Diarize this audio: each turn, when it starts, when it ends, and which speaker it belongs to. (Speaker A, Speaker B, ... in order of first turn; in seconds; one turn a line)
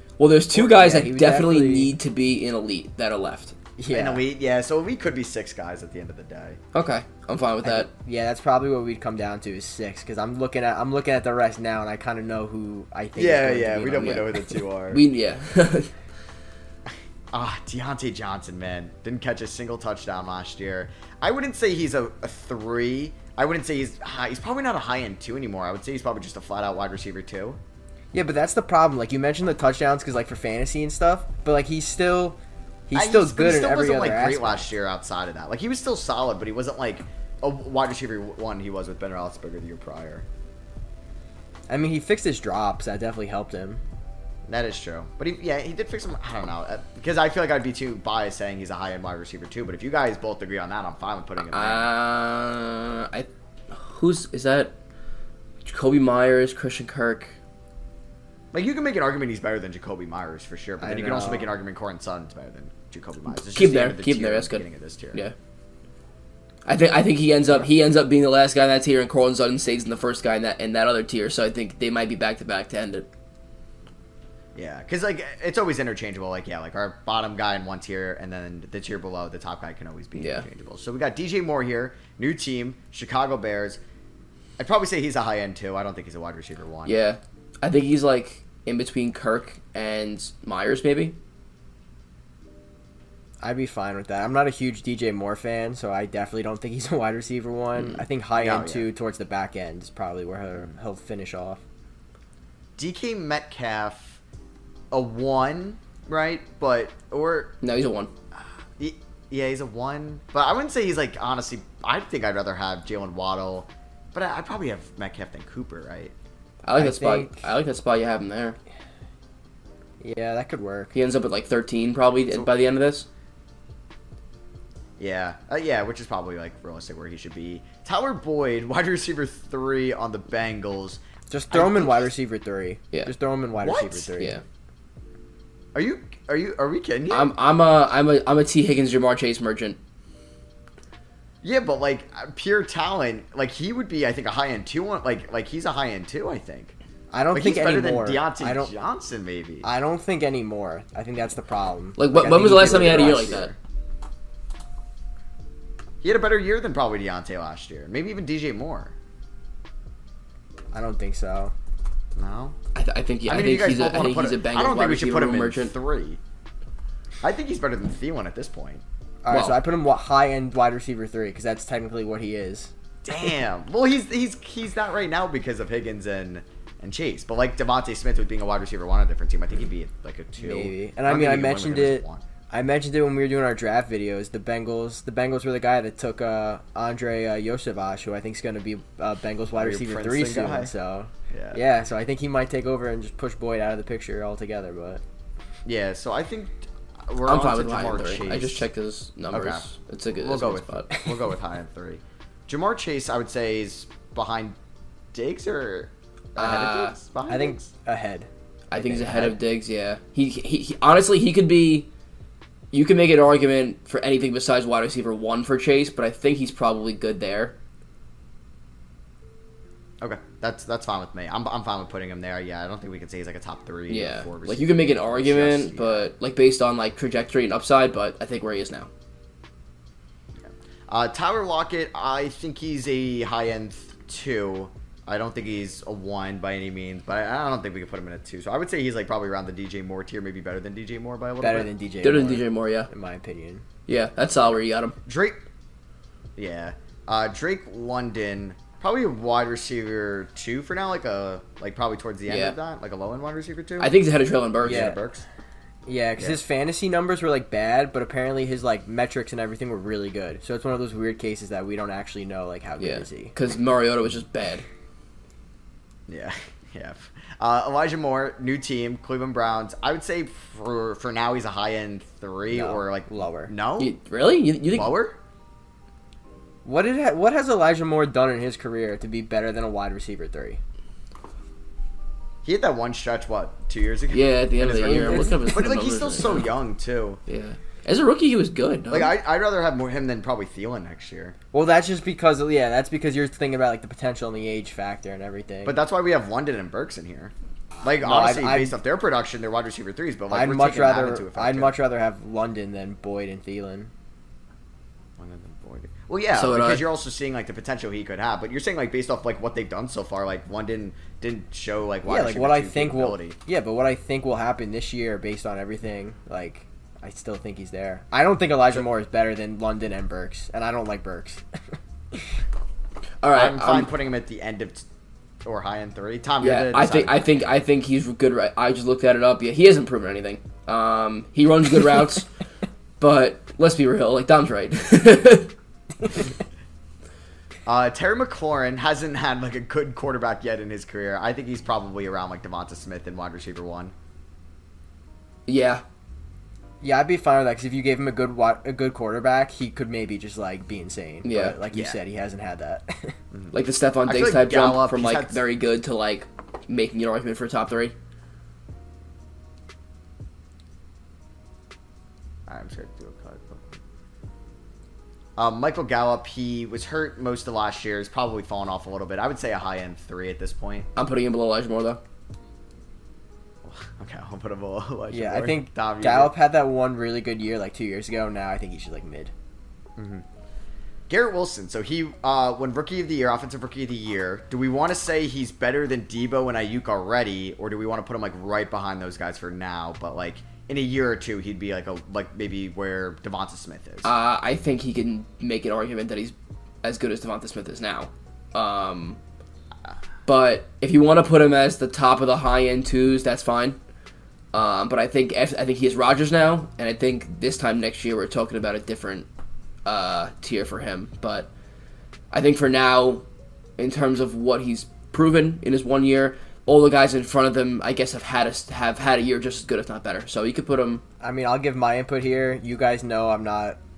Speaker A: 0.2-3.5
Speaker B: 0.5-1.9
Speaker B: 3.8-4.2
Speaker C: 3.9-6.6
Speaker A: 6.7-7.9
Speaker B: 7.6-14.4
Speaker C: 13.2-15.0
Speaker A: 14.0-14.3
Speaker A: 14.9-15.9
Speaker C: 17.3-27.6
Speaker B: 28.1-34.7
Speaker C: 32.9-40.3
Speaker B: 41.7-43.8
Speaker C: 44.5-51.9
Speaker A: 51.5-54.7
Speaker A: 55.6-57.3
Speaker C: 58.5-65.2
Speaker B: 60.8-61.5
Speaker A: 63.3-65.3
Speaker A: 66.7-73.1
Speaker C: 74.5-83.8
Speaker A: 80.2-80.5
Speaker C: 84.6-87.0
Speaker A: 86.9-91.2
Speaker B: 93.4-101.6
Speaker C: 98.4-98.9
Speaker C: 102.8-104.2
Speaker C: 104.9-107.6
Speaker A: 107.6-108.1
Speaker C: 108.3-116.1
Speaker A: 116.6-118.6
Speaker B: 116.8-117.5
Speaker B: 120.0-120.9
Speaker A: 120.9-123.1
Speaker C: 125.0-132.1
Speaker B: 131.3-134.4
Speaker C: 133.6-134.1
Speaker A: 134.2-134.4
Speaker C: 135.8-137.3
Speaker A: 137.1-139.8
Speaker C: 141.4-146.8
Speaker B: 147.1-148.7
Speaker C: 147.3-149.7
Speaker B: 149.6-153.5
Speaker A: 152.0-153.5
Speaker C: 152.5-153.6
Speaker C: 156.0-158.9
Speaker B: 160.7-161.5
Speaker C: 162.2-162.6
Speaker A: 162.8-165.7
Speaker C: 163.3-166.2
Speaker C: 167.2-168.8
Speaker B: 169.2-172.7
Speaker A: 169.3-169.6
Speaker C: 173.0-182.2
Speaker B: 180.4-195.0
Speaker C: 189.6-190.7
Speaker C: 191.3-191.6
Speaker C: 195.7-198.7
Speaker A: 197.2-201.0
Speaker C: 199.3-204.6
Speaker C: 205.1-207.7
Speaker A: 206.4-207.0
Speaker B: 207.3-209.4
Speaker A: 208.7-211.9
Speaker A: 212.7-217.6
Speaker C: 220.0-226.1
Speaker A: 223.9-228.9
Speaker C: 230.4-241.7
Speaker B: 241.4-243.7
Speaker A: 242.0-242.9
Speaker A: 243.9-245.0
Speaker C: 245.1-245.4
Speaker C: 246.4-253.9
Speaker A: 252.3-252.6
Speaker A: 253.8-254.9
Speaker C: 254.6-255.3
Speaker B: 254.6-255.0
Speaker B: 255.9-263.3
Speaker A: 262.8-264.6
Speaker C: 266.1-273.9
Speaker B: 272.5-273.5
Speaker A: 273.8-274.9
Speaker C: 274.7-275.2
Speaker B: 276.6-280.6
Speaker C: 282.4-287.2
Speaker A: 284.1-286.6
Speaker B: 284.9-285.6
Speaker A: 287.3-289.1
Speaker C: 288.9-291.4
Speaker B: 291.5-295.8
Speaker C: 295.6-301.8
Speaker B: 298.0-298.8
Speaker B: 300.3-303.9
Speaker C: 305.2-313.4
Speaker A: 306.3-306.9
Speaker B: 312.1-322.2
Speaker A: 323.2-323.9
Speaker C: 323.3-324.9
Speaker C: 325.4-327.5
Speaker A: 326.4-332.3
Speaker A: 333.0-335.5
Speaker C: 337.7-343.9
Speaker A: 345.5-345.8
Speaker B: 346.8-353.2
Speaker A: 351.2-351.6
Speaker C: 351.7-352.0
Speaker C: 353.3-355.4
Speaker A: 353.5-357.9
Speaker C: 362.5-363.8
Speaker C: 365.4-370.9
Speaker A: 371.0-372.0
Speaker C: 373.6-376.4
Speaker B: 375.1-379.3
Speaker C: 380.0-380.2
Speaker C: 381.1-394.1
Speaker A: 394.0-399.2
Speaker A: 400.3-403.8
Speaker A: 404.5-409.3
Speaker A: 409.9-411.5
Speaker A: 412.3-413.2
Speaker A: 413.8-421.0
Speaker B: 421.2-423.8